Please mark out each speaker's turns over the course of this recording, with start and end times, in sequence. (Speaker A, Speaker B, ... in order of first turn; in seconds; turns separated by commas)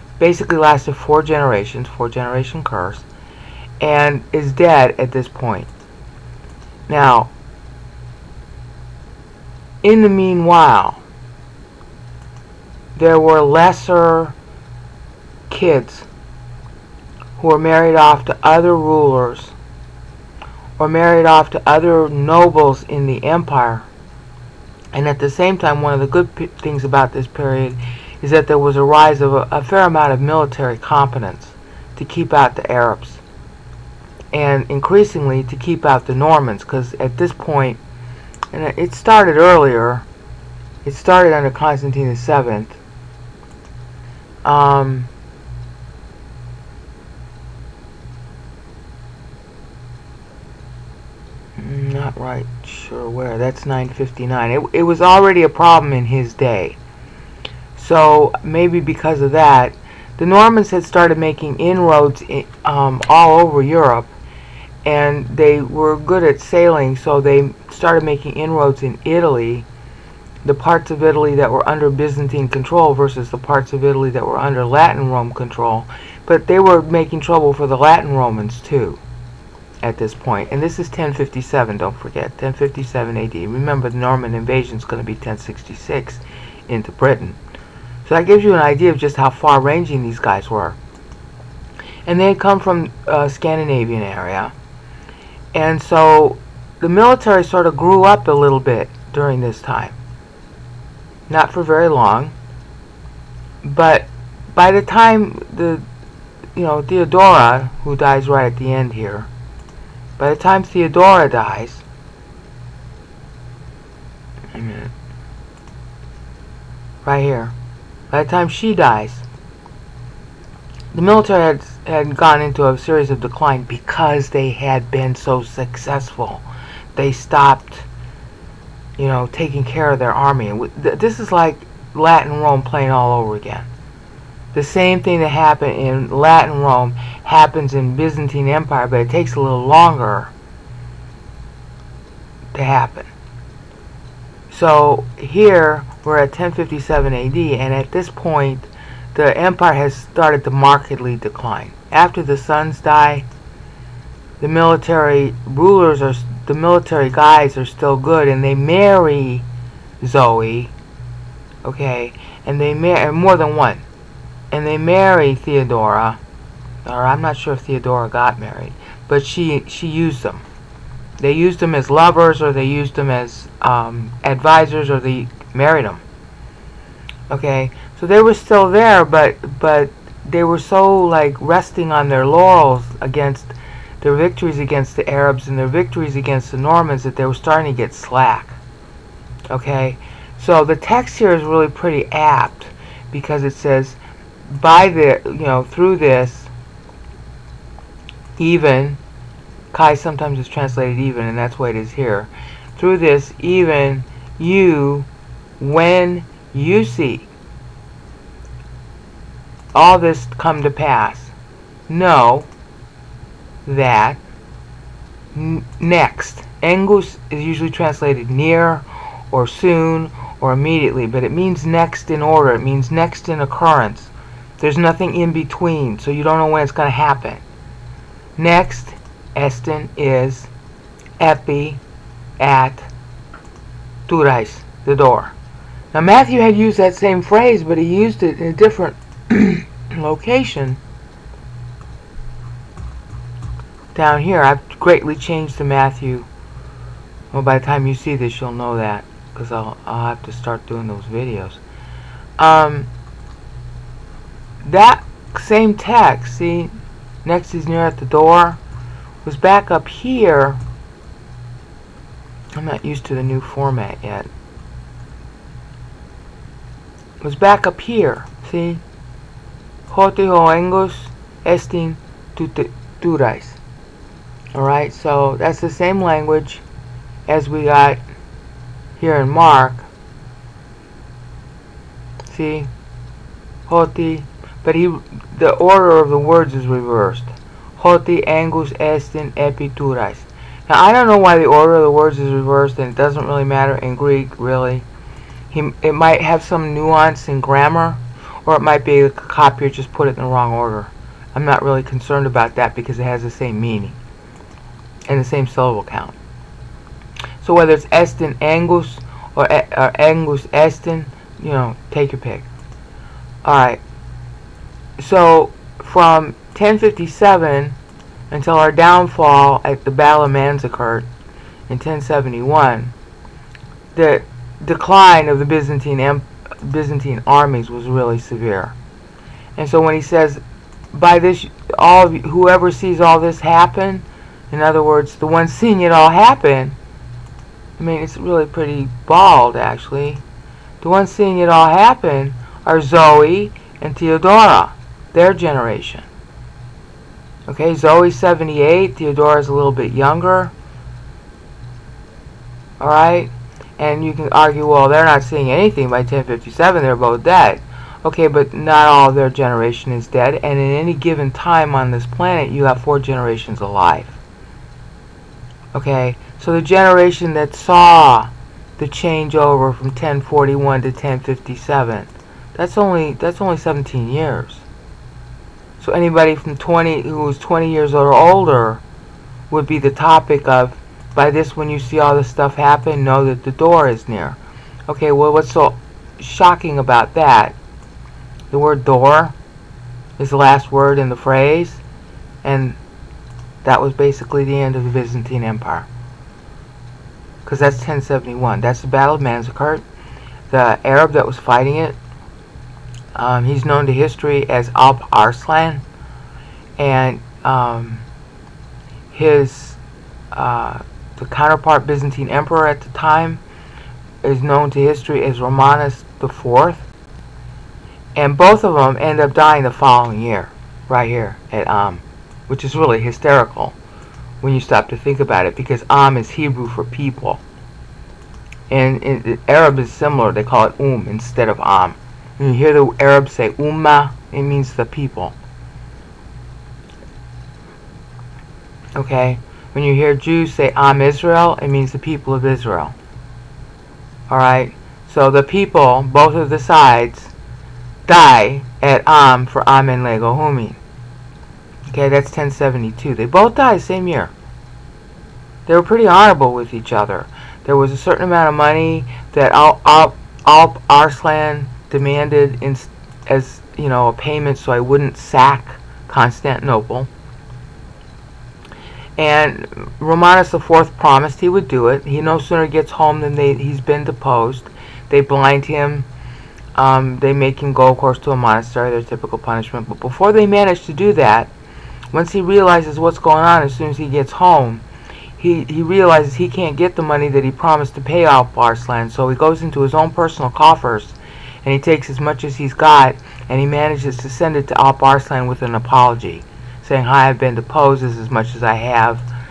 Speaker A: 0.2-3.0, Speaker A: 3.8-5.7, Speaker A: 6.9-7.3, Speaker A: 9.8-11.0, Speaker A: 12.9-14.3, Speaker A: 15.5-16.1, Speaker A: 17.4-19.5, Speaker A: 20.8-23.9, Speaker A: 24.9-33.2, Speaker A: 34.3-37.8, Speaker A: 38.5-40.0, Speaker A: 40.8-42.8, Speaker A: 44.4-45.1, Speaker A: 51.6-56.8, Speaker A: 57.8-64.1, Speaker A: 64.8-69.7, Speaker A: 70.4-79.0, Speaker A: 79.8-87.4, Speaker A: 88.0-90.8, Speaker A: 92.0-94.5, Speaker A: 95.5-100.0, Speaker A: 101.3-102.3, Speaker A: 103.6-105.8, Speaker A: 106.5-109.3, Speaker A: 110.2-111.8, Speaker A: 114.5-114.9, Speaker A: 117.0-117.5, Speaker A: 118.1-119.2, Speaker A: 120.9-127.9, Speaker A: 129.0-133.7, Speaker A: 134.5-140.3, Speaker A: 142.5-143.1, Speaker A: 144.5-153.3, Speaker A: 154.4-159.4, Speaker A: 160.0-160.7, Speaker A: 161.6-163.8, Speaker A: 164.5-166.2, Speaker A: 166.8-170.4, Speaker A: 171.2-176.0, Speaker A: 177.3-188.6, Speaker A: 189.5-196.5, Speaker A: 198.4-199.0, Speaker A: 199.7-205.1, Speaker A: 205.6-207.3, Speaker A: 209.7-211.3, Speaker A: 211.9-212.5, Speaker A: 213.7-214.2, Speaker A: 215.3-227.4, Speaker A: 228.4-230.5, Speaker A: 231.2-231.8, Speaker A: 232.4-232.9, Speaker A: 234.1-235.3, Speaker A: 235.9-240.8, Speaker A: 243.9-246.3, Speaker A: 247.3-251.6, Speaker A: 252.4-252.9, Speaker A: 254.6-258.6, Speaker A: 259.2-260.6, Speaker A: 262.5-264.3, Speaker A: 267.2-268.8, Speaker A: 269.9-273.6, Speaker A: 274.5-276.6, Speaker A: 277.3-278.0, Speaker A: 279.0-279.9, Speaker A: 282.2-282.7, Speaker A: 283.7-294.9, Speaker A: 295.5-304.0, Speaker A: 305.1-306.1, Speaker A: 307.4-312.5, Speaker A: 313.4-313.8, Speaker A: 315.0-317.8, Speaker A: 318.3-321.1, Speaker A: 321.7-322.9, Speaker A: 323.9-328.7, Speaker A: 329.6-330.4, Speaker A: 330.9-336.8, Speaker A: 337.8-340.2, Speaker A: 340.8-346.1, Speaker A: 347.5-350.5, Speaker A: 352.8-364.2, Speaker A: 365.7-374.6, Speaker A: 375.8-378.8, Speaker A: 379.5-387.6, Speaker A: 388.5-389.3, Speaker A: 390.2-391.8, Speaker A: 392.4-392.8, Speaker A: 393.6-395.9, Speaker A: 397.4-399.8, Speaker A: 400.5-402.0, Speaker A: 403.1-405.8, Speaker A: 406.8-408.1, Speaker A: 409.1-409.8, Speaker A: 410.3-413.4, Speaker A: 414.2-416.9, Speaker A: 418.1-423.8, Speaker A: 424.4-427.4, Speaker A: 428.7-435.4, Speaker A: 438.9-442.9, Speaker A: 444.3-447.3, Speaker A: 448.1-450.8, Speaker A: 451.9-454.3, Speaker A: 455.6-467.1, Speaker A: 469.2-476.1, Speaker A: 476.7-481.5, Speaker A: 482.1-484.8, Speaker A: 485.4-499.2